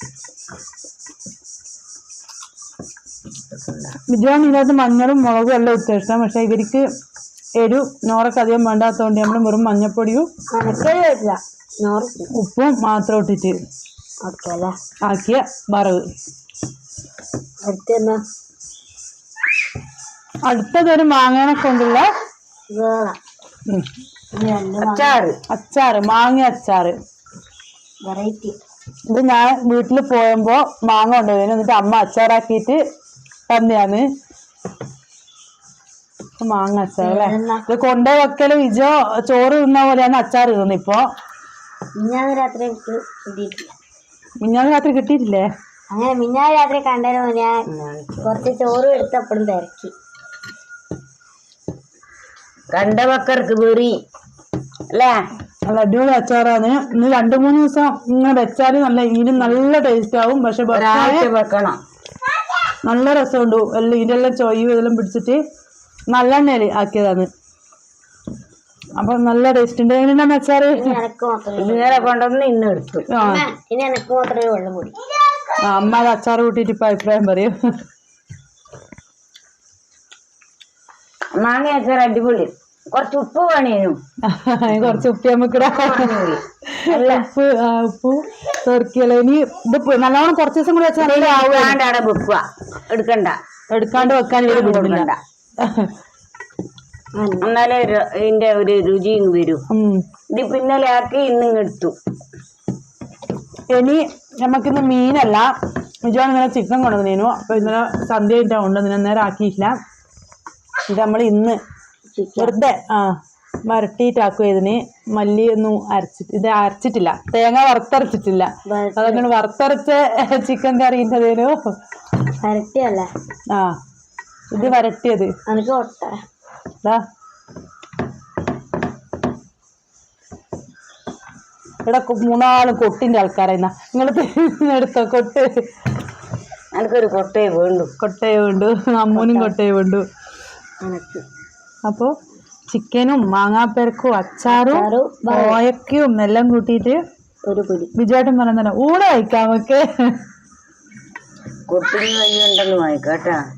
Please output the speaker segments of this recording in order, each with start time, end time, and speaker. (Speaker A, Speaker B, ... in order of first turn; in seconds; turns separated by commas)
Speaker A: 3.6-3.9, Speaker B: 4.1-6.9, Speaker B: 7.6-10.3, Speaker C: 10.6-12.3, Speaker B: 12.3-13.6, Speaker C: 14.2-14.8, Speaker B: 15.1-16.0, Speaker C: 17.7-18.2, Speaker B: 20.5-22.1, Speaker C: 22.7-23.2, Speaker C: 24.4-25.2, Speaker A: 24.8-25.4, Speaker B: 25.5-27.0, Speaker C: 28.1-28.6, Speaker B: 29.1-32.8, Speaker B: 33.5-34.1, Speaker B: 36.4-41.0, Speaker C: 37.0-37.6, Speaker C: 42.0-43.7, Speaker B: 44.4-45.5, Speaker C: 45.9-47.7, Speaker A: 47.7-48.5, Speaker C: 48.2-49.9, Speaker A: 52.7-54.0, Speaker A: 54.9-55.2, Speaker B: 55.7-61.3, Speaker A: 60.7-61.8, Speaker B: 62.8-65.4, Speaker B: 66.1-67.3, Speaker B: 69.0-71.0, Speaker C: 70.7-72.1, Speaker A: 71.6-73.1, Speaker B: 73.1-73.5, Speaker C: 73.2-74.9, Speaker B: 75.6-77.5, Speaker A: 81.4-84.0, Speaker B: 84.3-86.2, Speaker A: 84.8-85.0, Speaker A: 85.6-87.3, Speaker B: 86.7-91.8, Speaker A: 91.0-93.4, Speaker B: 93.7-95.9, Speaker A: 94.0-95.2, Speaker C: 97.2-97.5, Speaker A: 97.4-99.6, Speaker B: 99.7-100.0, Speaker A: 100.3-102.0, Speaker B: 103.7-105.5, Speaker B: 106.0-109.8, Speaker B: 110.9-111.6, Speaker C: 112.1-112.6, Speaker B: 112.4-113.2, Speaker B: 113.7-121.5, Speaker C: 118.7-119.3, Speaker C: 122.4-123.1, Speaker B: 123.5-123.8, Speaker B: 124.5-125.3, Speaker C: 125.5-126.2, Speaker B: 131.8-135.5, Speaker A: 136.7-137.9, Speaker B: 138.0-140.1, Speaker C: 139.1-139.6, Speaker C: 140.8-141.2, Speaker B: 141.8-142.1, Speaker B: 142.7-147.0, Speaker C: 144.5-145.6, Speaker C: 147.4-147.9, Speaker B: 147.9-149.8, Speaker A: 151.7-153.4